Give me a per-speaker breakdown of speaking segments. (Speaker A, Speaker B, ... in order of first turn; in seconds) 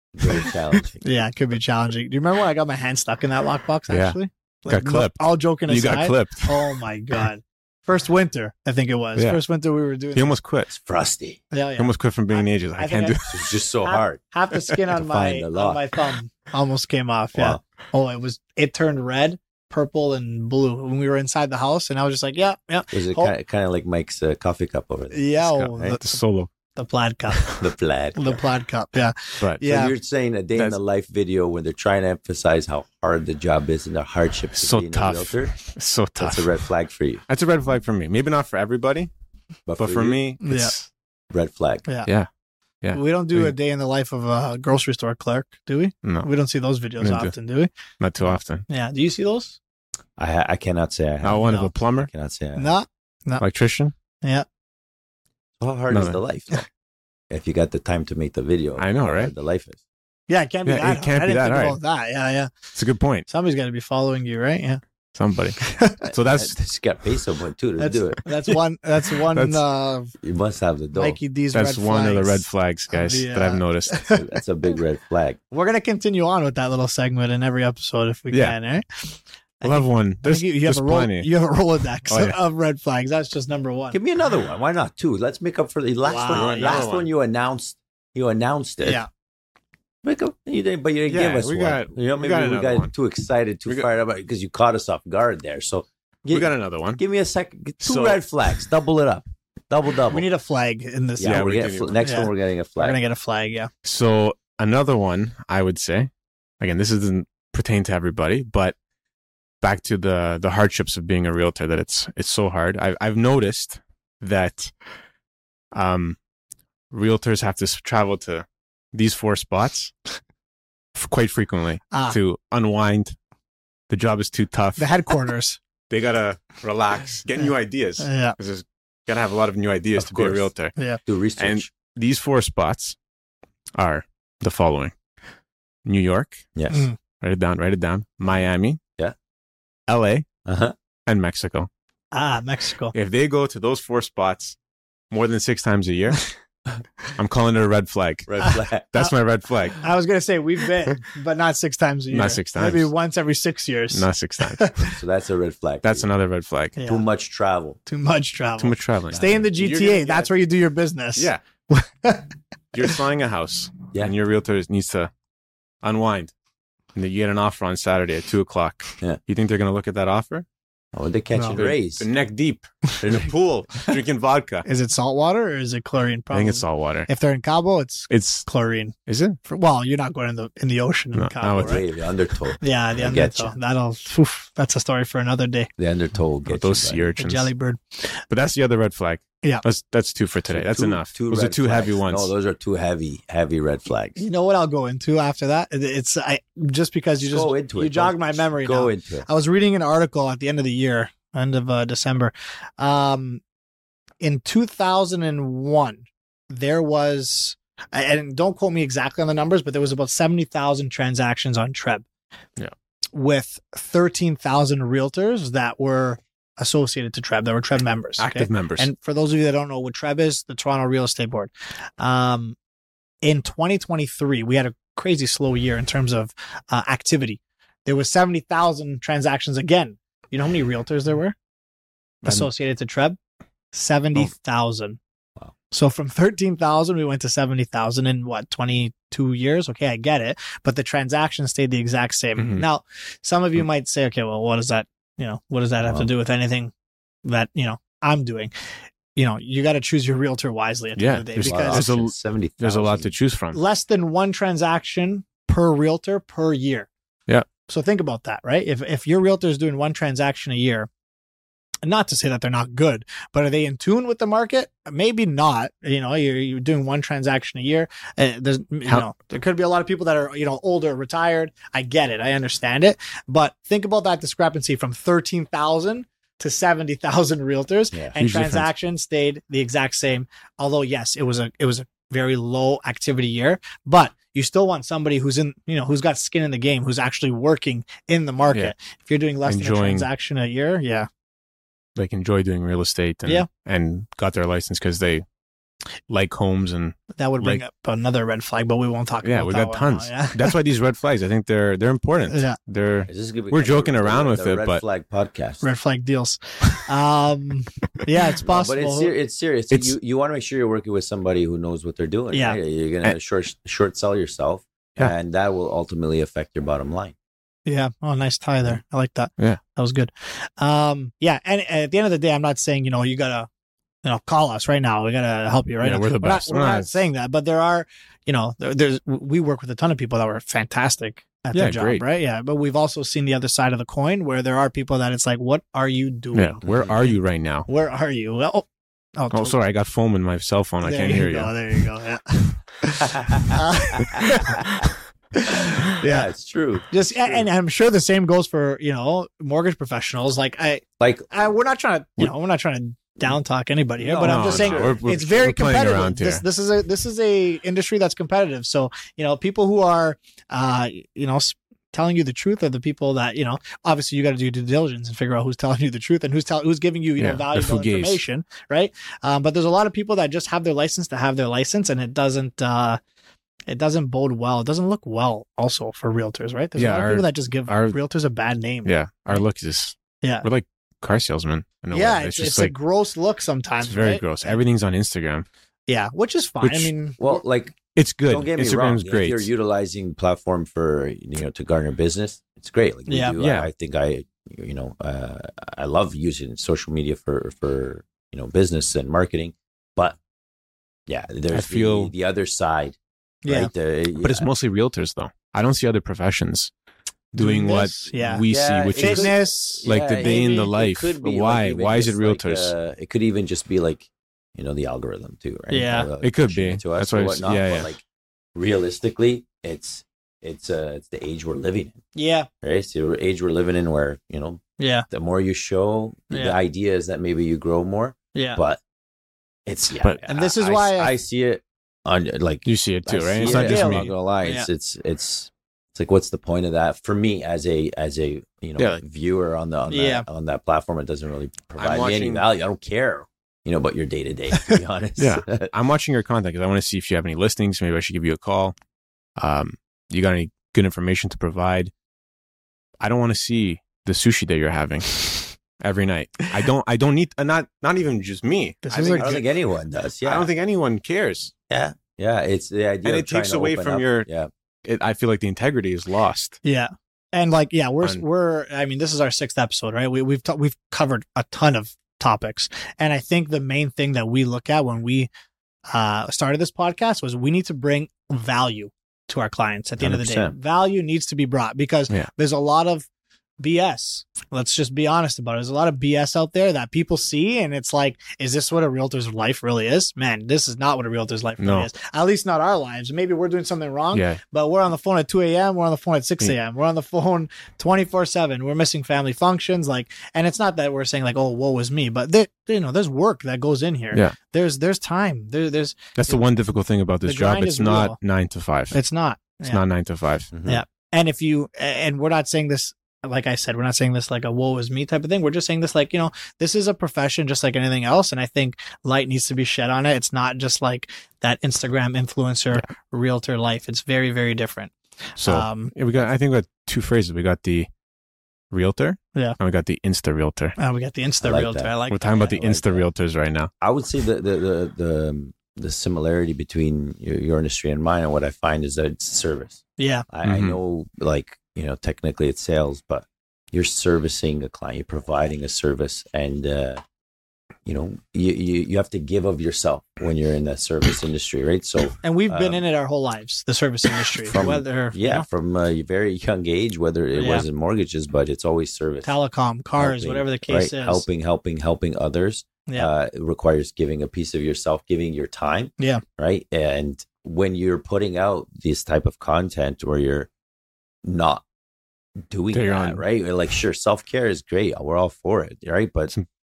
Speaker A: 0.1-1.1, 10.7-11.4, 13.3-14.2, 14.9-15.8, 17.4-17.6, 22.9-26.0, 27.6-28.4, 29.6-35.5, 36.2-37.2, 39.7-40.2, 41.3-41.9, 50.2-52.7, 55.6-56.6, 57.3-59.8, 66.3-68.2, 70.2-71.2, 74.1-75.4, 83.9-89.0, 90.0-100.3, 101.2-103.0, 131.1-131.7, 136.6-136.9, 140.4-140.8, 148.3-148.9, 154.8-156.1, 156.8-157.8, 170.9-172.1, 173.0-173.3, 181.6-183.6, 185.8-187.1, 190.5-194.2, 197.2-199.3, 245.8-246.1, 251.4-253.1, 303.1-305.6, 308.4-317.1, 336.6-337.0, 343.0-343.6, 344.1-344.9, 346.0-347.4, 351.0-351.3, 354.0-355.1, 387.2-387.8, 388.3-400.2, 401.1-404.5, 408.5-418.0, 418.6-422.0, 422.6-428.8, 429.7-445.7, 459.2-460.5, 461.7-464.5, 480.0-480.5, 510.5-510.8, 531.4-533.1, 533.8-547.0, 547.9-552.8, 554.4-559.3, 560.0-570.5, 571.2-571.6, 572.5-576.3
Speaker B: 1.0-10.3, 11.5-13.2, 13.9-23.3, 25.1-26.2, 26.8-27.6, 28.2-29.9, 40.4-40.7, 42.9-47.7, 48.7-49.6, 51.5-51.7, 52.6-53.4, 60.3-62.8, 63.3-64.8, 65.6-66.1, 67.8-70.2, 71.0-74.2, 75.5-84.0, 86.0-86.9, 100.1-101.4, 102.0-103.7, 121.9-122.2, 124.8-125.6, 128.0-128.4, 130.0-131.0, 136.7-137.0, 142.1-142.9, 149.8-154.9, 156.8-157.0, 157.9-163.0, 174.7-181.8, 182.6-185.7, 187.2-188.2, 194.2-203.4, 204.2-212.1, 213.1-222.6, 223.2-231.3, 232.2-233.2, 233.7-235.0, 235.7-246.7, 247.2-248.5, 249.2-251.9, 253.5-256.9, 257.7-260.9, 261.8-291.1, 297.2-300.6, 302.3-302.6, 305.6-309.1, 312.3-312.6, 317.7-323.5, 324.0-337.1, 337.7-339.6, 340.8-344.6, 345.4-346.0, 346.9-373.0, 373.7-379.4, 381.9-384.6, 385.9-387.4, 393.1-393.4, 403.4-403.7, 407.4-410.7, 415.7-416.1, 422.1-422.5, 424.8-425.1, 426.3-426.6, 428.4-428.6, 430.3-431.1, 433.4-434.7, 439.9-440.3, 458.8-459.4, 466.6-475.3, 475.9-483.1, 483.6-506.5, 507.2-508.2, 508.9-509.8, 510.6-525.9, 530.8-532.3, 540.0-540.3, 552.2-555.5, 557.4-557.6, 559.2-561.2
Speaker C: 3.9-6.8, 10.2-10.7, 11.8-13.5, 25.4-26.5, 27.3-27.6, 34.5-36.7, 37.3-39.1, 39.8-40.9, 42.8-43.5, 46.0-46.3, 47.0-47.3, 48.0-48.7, 51.2-52.1, 53.4-53.9, 55.9-56.2, 58.8-59.3, 60.7-61.8, 62.8-63.3, 65.2-66.5, 69.3-69.6, 71.5-74.1, 78.3-78.6, 79.6-81.3, 82.1-82.4, 86.3-87.1, 91.1-92.9, 96.3-97.0, 97.8-98.2, 101.2-102.1, 103.8-108.8, 109.6-114.7, 115.7-116.2, 116.9-119.9, 121.0-123.2, 123.9-124.9, 125.9-130.8, 131.4-133.0, 133.8-135.0, 135.8-136.5, 137.2-138.8, 139.9-140.3, 141.1-141.7, 142.9-144.6, 145.1-146.2, 147.1-149.8, 152.1-152.9, 153.9-154.8, 155.8-156.8, 158.6-160.3, 161.2-161.4, 162.7-165.1, 165.8-166.3, 166.9-170.5, 171.5-174.7, 176.3-177.1, 178.1-178.5, 179.1-179.4, 181.2-181.8, 186.5-187.5, 188.3-192.3, 218.2-218.9, 242.4-242.7, 251.0-253.6, 278.2-278.7, 289.4-290.1, 291.9-295.3, 296.1-297.6, 299.2-304.8, 325.8-326.9, 331.5-332.1, 336.3-337.7, 339.3-341.5, 346.0-346.3, 354.2-356.4, 367.2-368.2, 376.8-378.0, 378.8-382.7, 383.8-385.5, 386.6-386.9, 387.9-389.5, 393.4-393.7, 401.5-402.1, 404.2-406.7, 407.3-412.7, 416.2-417.9, 432.6-434.1, 441.8-442.4, 445.2-448.8, 449.4-451.9, 453.0-459.4, 460.3-461.5, 463.1-464.3, 464.8-466.6, 491.6-491.9, 494.1-494.4, 506.2-509.0, 509.6-510.5, 525.4-527.9, 528.7-530.8, 532.1-533.7, 540.4-540.8, 572.7-573.2